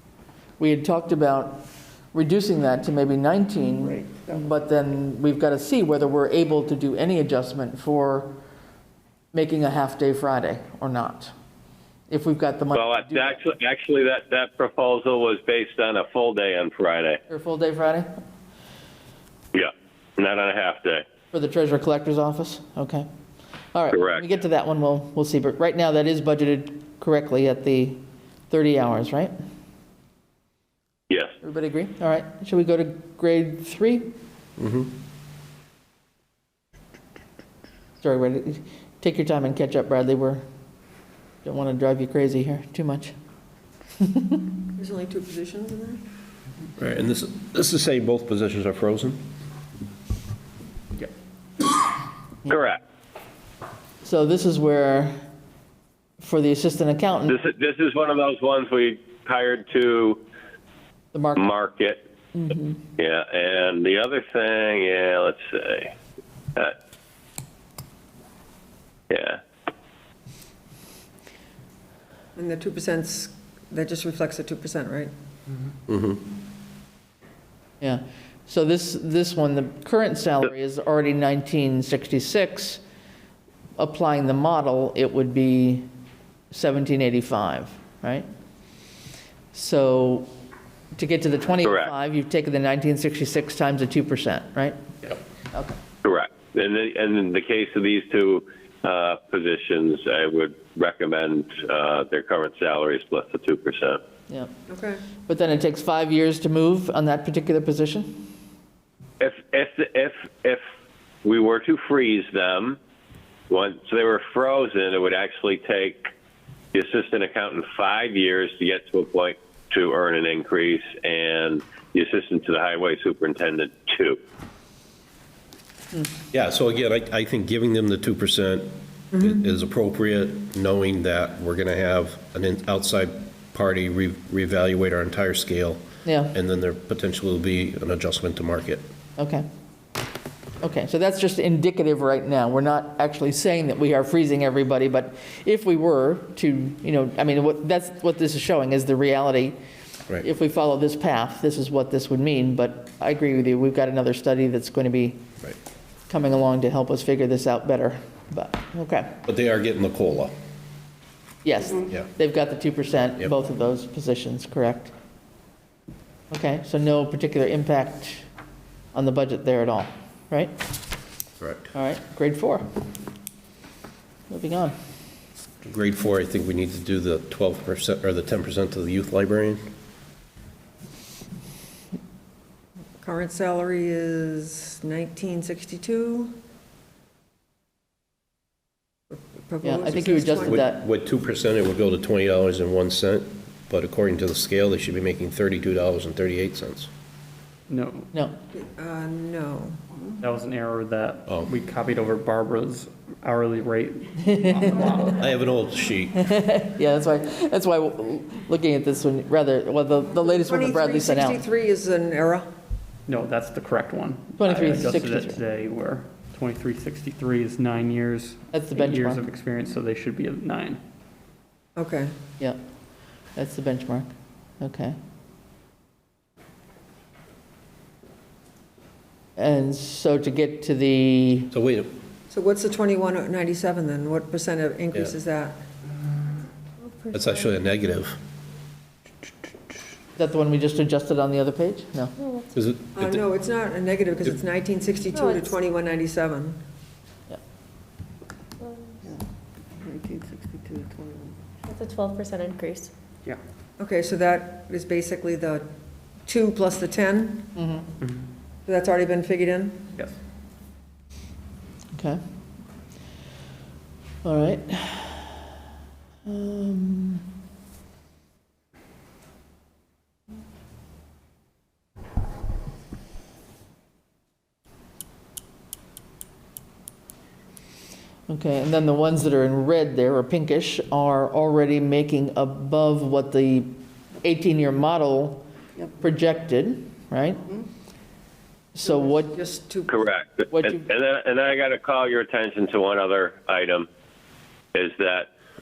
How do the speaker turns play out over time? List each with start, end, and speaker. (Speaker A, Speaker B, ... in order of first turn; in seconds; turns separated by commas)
Speaker A: 0.6-8.4, Speaker B: 4.0-4.3, Speaker A: 9.3-11.3, Speaker A: 12.1-13.4, Speaker C: 12.7-17.2, Speaker A: 17.3-18.1, Speaker C: 19.5-21.0, Speaker A: 21.3-23.1, Speaker A: 23.7-29.4, Speaker C: 23.9-24.3, Speaker C: 31.1-31.4, Speaker A: 31.4-34.1, Speaker D: 34.6-34.9, Speaker A: 38.0-40.4, Speaker A: 41.4-43.1, Speaker A: 44.0-44.5, Speaker E: 44.8-46.0, Speaker D: 46.8-49.2, Speaker C: 52.5-52.8, Speaker A: 54.0-55.2, Speaker A: 56.2-57.4, Speaker C: 57.3-60.2, Speaker A: 61.1-61.5, Speaker C: 61.4-62.0, Speaker A: 62.4-62.7, Speaker C: 63.0-65.9, Speaker C: 69.1-69.4, Speaker E: 72.4-75.1, Speaker D: 75.9-76.2, Speaker A: 77.8-82.8, Speaker A: 83.8-85.9, Speaker A: 86.5-88.3, Speaker A: 89.5-90.3, Speaker A: 91.0-94.8, Speaker C: 91.6-91.9, Speaker A: 95.5-95.8, Speaker C: 96.0-104.0, Speaker E: 104.7-105.0, Speaker A: 105.3-108.2, Speaker C: 109.2-110.6, Speaker C: 111.2-112.8, Speaker C: 113.5-116.0, Speaker C: 116.7-124.2, Speaker D: 126.3-138.8, Speaker A: 136.1-136.3, Speaker A: 139.2-139.5, Speaker A: 140.6-149.6, Speaker A: 150.2-155.2, Speaker A: 156.1-159.2, Speaker D: 159.3-160.3, Speaker A: 161.4-164.9, Speaker A: 166.3-168.3, Speaker A: 168.9-170.5, Speaker D: 171.4-171.7, Speaker A: 171.7-172.7, Speaker A: 174.3-174.8, Speaker D: 175.6-179.7, Speaker E: 183.0-186.3, Speaker E: 189.1-190.6, Speaker A: 189.6-190.8, Speaker D: 190.4-196.9, Speaker F: 197.7-198.1, Speaker E: 198.5-199.8, Speaker F: 200.2-205.2, Speaker D: 201.3-201.5, Speaker D: 205.2-206.2, Speaker A: 206.2-211.4, Speaker E: 210.4-212.5, Speaker F: 213.1-220.8, Speaker A: 214.4-215.4, Speaker A: 218.5-219.2, Speaker E: 221.8-222.1, Speaker A: 223.4-224.1, Speaker A: 224.6-225.0, Speaker A: 229.4-231.5, Speaker D: 231.5-231.9, Speaker E: 232.3-235.6, Speaker G: 236.8-237.5, Speaker D: 237.1-238.2, Speaker A: 240.2-242.2, Speaker G: 242.2-242.5, Speaker D: 242.6-243.2, Speaker E: 242.9-246.6, Speaker G: 245.1-245.6, Speaker G: 248.6-249.0, Speaker B: 249.8-251.3, Speaker G: 251.7-252.9, Speaker E: 253.8-255.7, Speaker E: 256.3-257.5, Speaker A: 257.6-257.9, Speaker E: 258.7-259.9, Speaker A: 261.9-262.2, Speaker A: 264.2-265.4, Speaker A: 266.2-267.2, Speaker A: 278.3-285.5, Speaker A: 286.0-287.4, Speaker A: 288.7-289.4, Speaker E: 288.9-290.0, Speaker C: 289.9-293.9, Speaker A: 290.5-290.9, Speaker C: 294.7-295.3